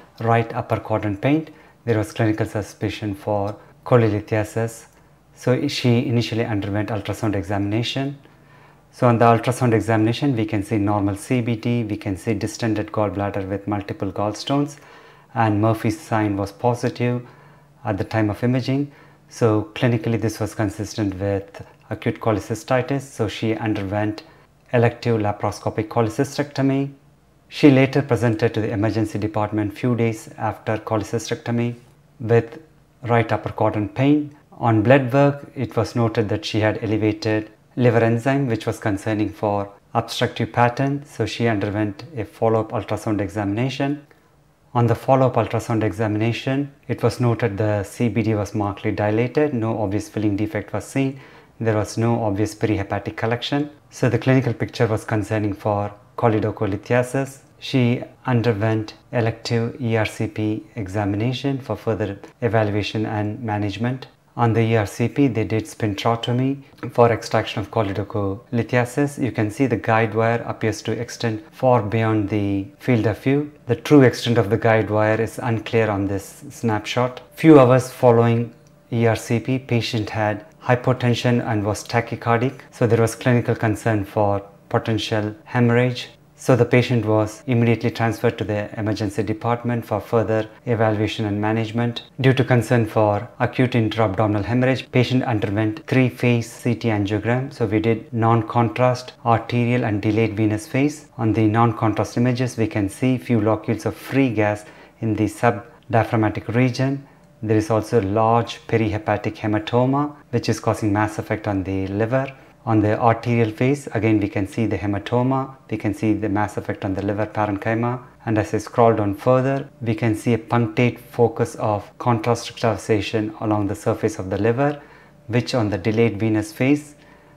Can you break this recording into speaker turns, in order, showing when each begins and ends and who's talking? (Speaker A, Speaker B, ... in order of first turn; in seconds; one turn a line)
Speaker A: 0.2-8.2
Speaker A: 8.9-14.8
Speaker A: 15.3-17.2
Speaker A: 17.8-26.9
Speaker A: 27.5-44.0
Speaker A: 44.7-127.0